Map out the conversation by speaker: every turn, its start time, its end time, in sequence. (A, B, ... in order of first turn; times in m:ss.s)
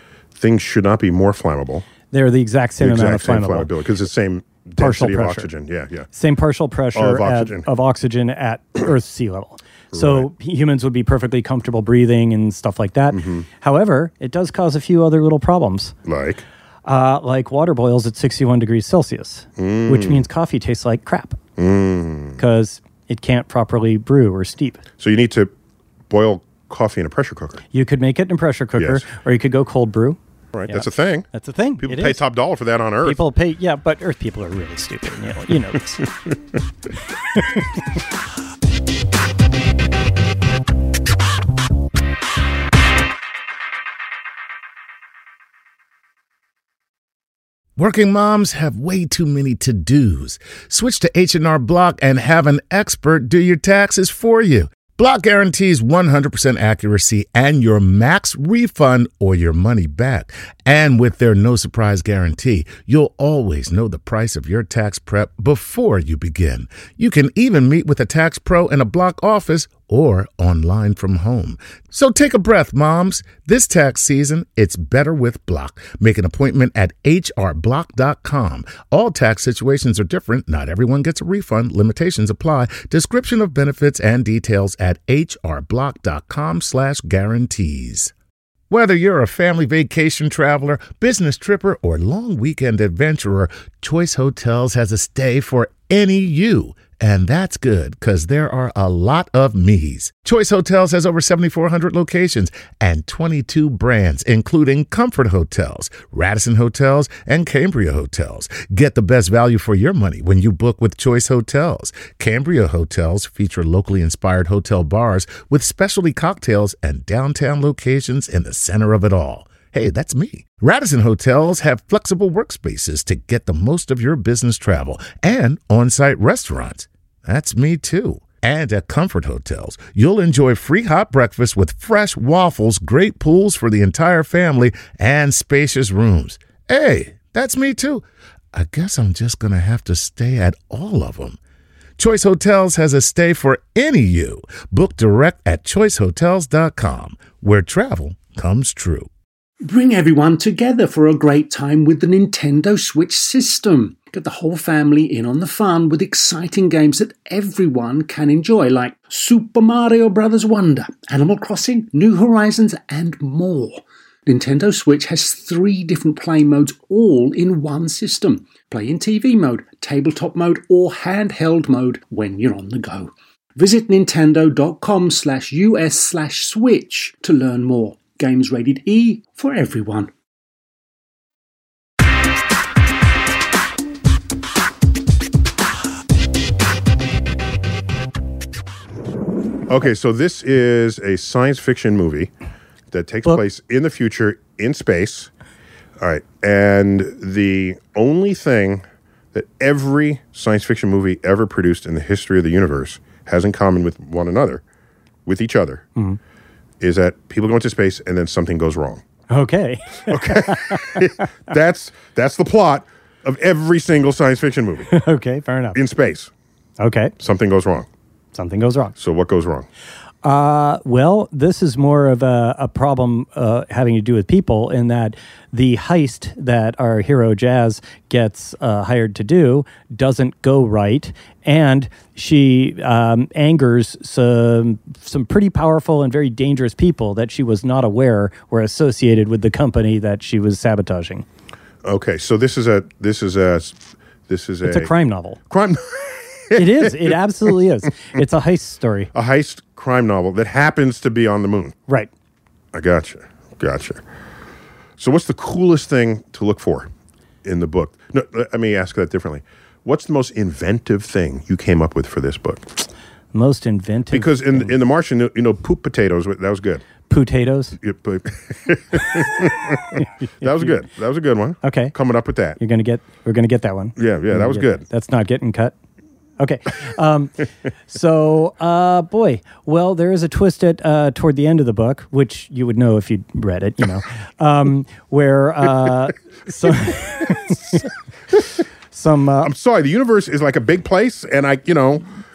0:00.4-0:01.8 A
0:02.1-0:03.7 B
0:02.8-0:06.1 A
0:04.8-0:05.5 B
0:06.1-0:15.9 B
0:06.9-0:07.7 A
0:09.9-0:10.3 A
0:13.1-0:13.4 A
0:16.0-0:16.4 A
0:16.8-0:21.4 B
0:19.6-0:20.2 A
0:21.6-0:22.4 A
0:22.4-0:24.8 B
0:25.0-0:25.5 A
0:26.1-0:27.6 A
0:27.7-0:32.2 B
0:28.8-0:29.0 A
0:30.5-0:31.3 A
0:31.8-0:33.2 A
0:33.0-0:36.1 B
0:47.8-1:28.1 C
1:28.7-2:21.4 C
2:22.0-2:29.1 C
2:29.6-3:00.1 D
3:09.7-3:12.3 A
3:12.9-3:15.3 A
3:16.0-3:24.6 A
3:25.2-3:25.8 A
3:26.8-3:29.0 A
3:29.3-3:31.2 B
3:30.1-3:34.9 A
3:34.9-3:35.8 B
3:35.7-3:36.3 A
3:36.8-3:37.1 B
3:37.2-3:37.9 A
3:38.3-3:38.9 B
3:39.0-3:39.7 A
3:40.2-4:01.2 B
4:01.8-4:04.9 A
4:04.6-4:05.4 B
4:05.5-4:07.2 A
4:06.5-4:09.1 B
4:09.1-4:11.8 A
4:12.7-4:14.0 A
4:15.0-4:16.9 A
4:17.4-4:22.7 A
4:23.3-4:24.7 B
4:24.1-4:26.8 A
4:27.1-4:27.8 B
4:27.8-4:32.6 A
4:30.4-4:30.7 B
4:31.6-4:31.9 B
4:32.6-4:35.7 B
4:34.0-4:34.8 A
4:36.4-4:37.4 B
4:37.9-4:47.9 B
4:48.9-4:49.5 B
4:49.4-4:52.0 A